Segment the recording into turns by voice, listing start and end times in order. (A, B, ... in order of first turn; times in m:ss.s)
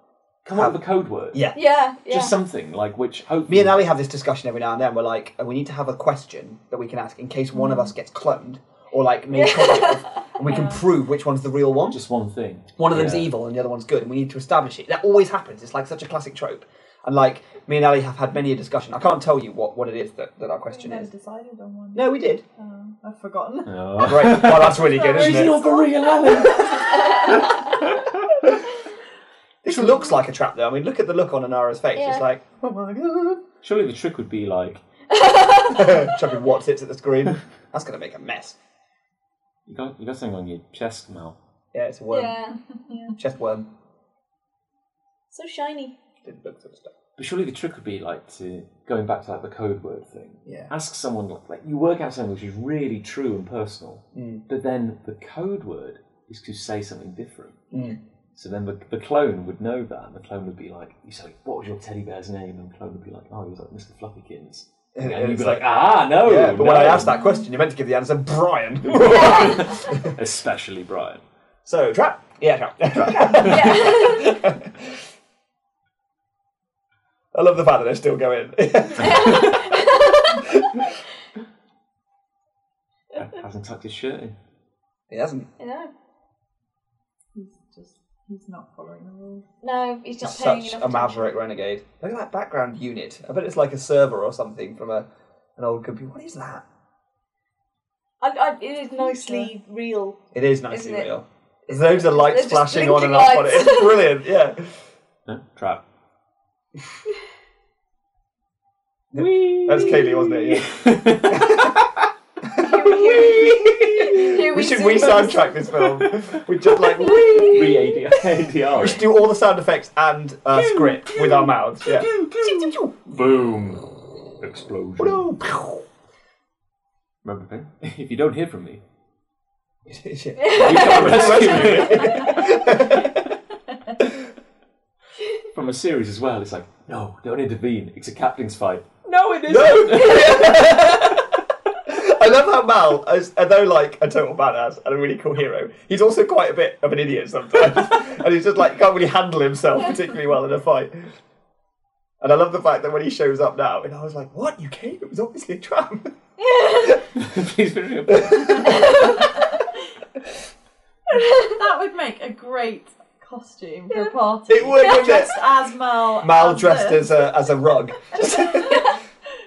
0:00.4-0:01.5 A
0:01.3-0:01.6 B
0:01.5-0:02.3 C
0:02.1-0:03.8 A
0:03.5-0:12.0 B
0:09.3-0:10.3 C
0:10.4-0:10.8 D
0:11.9-0:13.3 A
0:12.8-0:21.1 B
0:20.7-0:25.6 D
0:21.9-0:22.4 B
0:23.7-0:28.3 A
0:24.0-0:25.8 B
0:26.8-0:27.6 C
0:29.6-0:33.4 B
0:31.9-0:32.2 C
0:33.6-0:34.8 A
0:35.1-0:36.2 C
0:35.7-0:38.6 B
0:39.7-0:41.4 A
0:41.7-0:42.4 B
0:42.1-0:43.1 C
0:42.9-0:43.1 D
0:43.2-0:43.7 B
0:45.3-0:45.9 C
0:46.2-0:46.9 B
0:47.2-0:57.6 A
0:50.4-0:50.7 B
0:54.1-0:54.4 B
0:57.7-0:58.0 B
0:58.4-1:07.2 A
1:04.9-1:10.1 B
1:08.8-1:11.2 A
1:11.6-1:15.0 B
1:13.2-1:13.6 A
1:13.3-1:14.4 C
1:17.3-1:19.9 B
1:19.0-1:20.6 C
1:20.5-1:20.9 B
1:23.1-1:24.4 A
1:25.1-1:25.5 B
1:25.6-1:25.9 C
1:27.3-1:29.5 D
1:29.6-1:31.3 C
1:30.2-1:36.6 B
1:38.2-1:41.1 C
1:39.0-1:39.5 D
1:40.3-1:44.8 B
1:41.7-1:44.1 C
1:45.2-1:45.8 A
1:49.1-1:50.7 B
1:49.1-1:51.8 A
1:51.3-2:02.9 B
1:52.6-1:55.7 C
1:52.7-1:54.4 A
1:55.8-1:56.4 A
1:56.9-1:57.8 C
1:57.4-1:59.1 A
2:00.5-2:03.8 A
2:04.4-2:05.2 A
2:05.0-2:05.8 B
2:07.2-2:08.8 A
2:09.9-2:13.3 B
2:10.4-2:12.4 C
2:10.5-2:12.6 A
2:15.5-2:20.6 A
2:19.4-2:20.6 C
2:19.5-2:21.3 B
2:21.8-2:31.1 B
2:32.2-2:36.2 B
2:36.4-2:37.1 C
2:37.1-2:39.0 A
2:38.1-2:39.1 B
2:38.6-2:39.4 C
2:39.2-2:39.6 D
2:41.1-2:41.6 C
2:41.1-2:47.2 D
2:44.5-2:45.4 B
2:44.8-2:45.3 C
2:46.2-2:49.0 B
2:48.1-2:49.0 D